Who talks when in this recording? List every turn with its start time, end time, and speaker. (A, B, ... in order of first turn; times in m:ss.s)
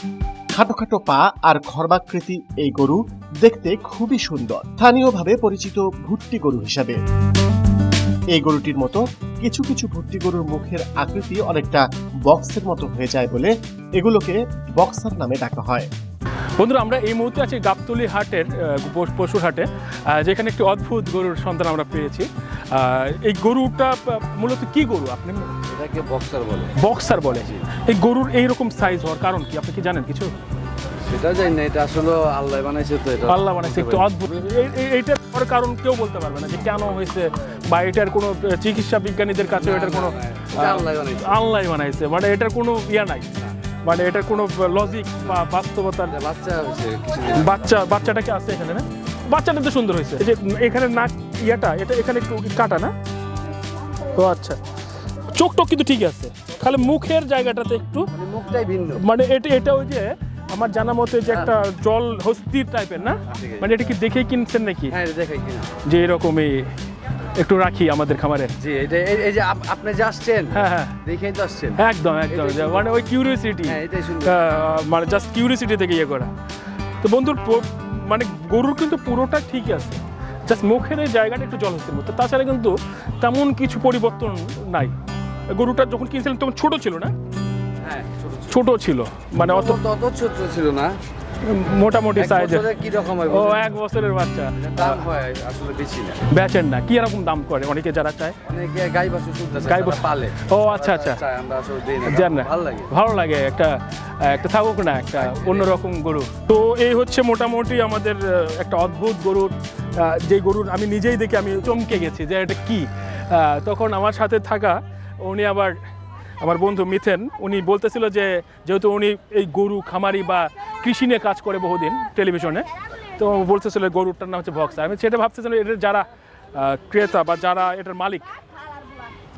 0:00.5-0:07.0 A
0:08.4-0:15.9 A
0:16.6-0:25.5 B
0:25.7-0:26.8 C
0:26.8-0:30.3 B
0:31.0-0:34.1 C
0:33.3-0:46.2 B
0:39.6-0:41.4 C
0:46.1-0:47.7 C
0:47.3-0:52.9 B
0:54.0-0:54.6 B
0:55.3-0:58.1 B
0:58.1-0:59.0 C
0:59.0-1:05.0 B
1:03.3-1:03.7 C
1:04.9-1:05.8 C
1:05.8-1:06.7 B
1:07.4-1:08.5 B
1:08.6-1:13.1 C
1:10.5-1:11.0 B
1:11.8-1:16.3 B
1:13.7-1:14.4 C
1:17.0-1:24.9 B
1:25.5-1:27.1 B
1:27.8-1:28.6 C
1:28.5-1:29.8 B
1:29.5-1:31.0 C
1:31.4-1:32.7 B
1:32.2-1:33.7 C
1:33.2-1:35.1 B
1:34.6-1:36.3 C
1:36.3-1:38.4 B
1:38.4-1:42.9 C
1:39.6-1:41.2 B
1:42.0-1:55.8 B
1:45.2-1:45.8 C
1:56.4-2:08.4 B